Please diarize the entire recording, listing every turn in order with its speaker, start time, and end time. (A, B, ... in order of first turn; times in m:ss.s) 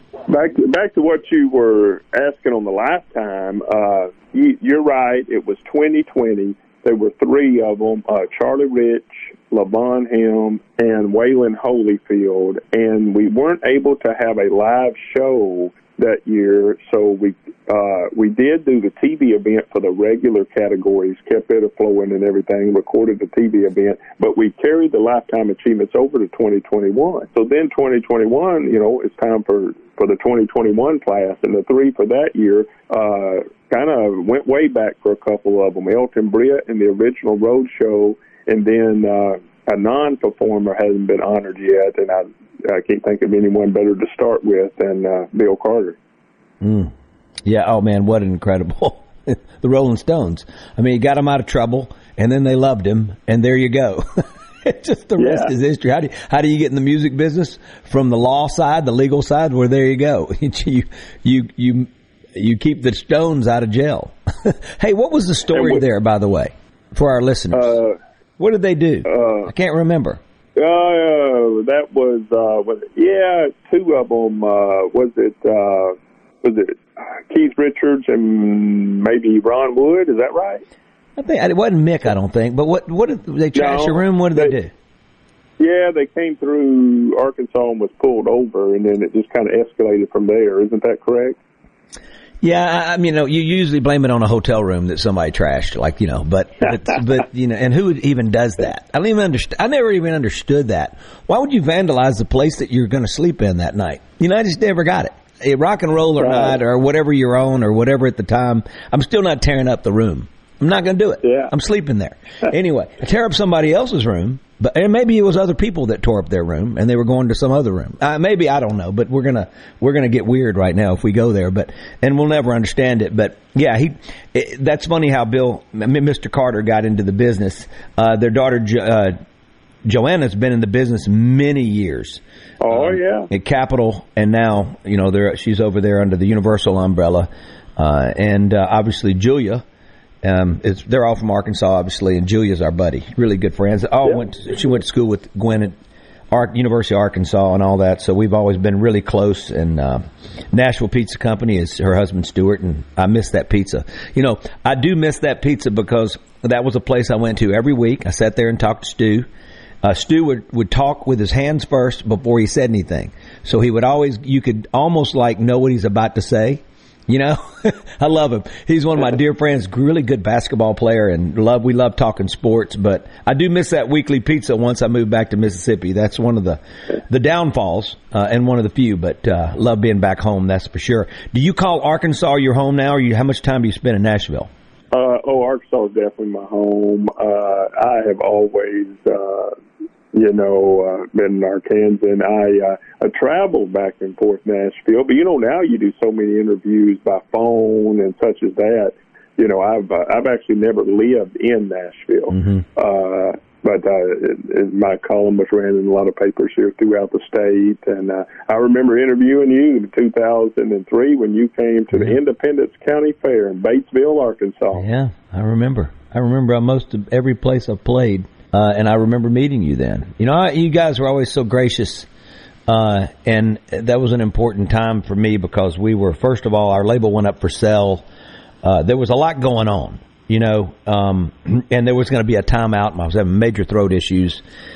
0:00.3-0:46.0 A
0:46.6-0:46.9 B
0:47.4-1:07.8 B
0:55.2-0:55.5 A
1:05.5-1:05.8 A
1:07.5-1:08.0 A
1:08.4-1:10.2 B
1:09.1-1:09.5 A
1:10.6-1:20.6 A
1:21.2-1:24.7 B
1:23.6-1:24.5 A
1:25.6-1:31.4 A
1:32.4-2:09.2 B
1:46.2-1:46.6 A
1:51.2-1:51.5 A
2:09.9-2:19.6 B
2:12.6-2:13.3 A
2:20.2-2:25.7 B
2:26.3-2:39.3 B
2:39.8-3:04.5 B
3:04.9-3:09.5 A
3:10.1-3:34.8 A
3:22.3-3:22.6 B
3:31.9-3:32.2 B
3:34.7-3:42.1 B
3:42.7-3:48.1 B
3:48.6-3:54.4 B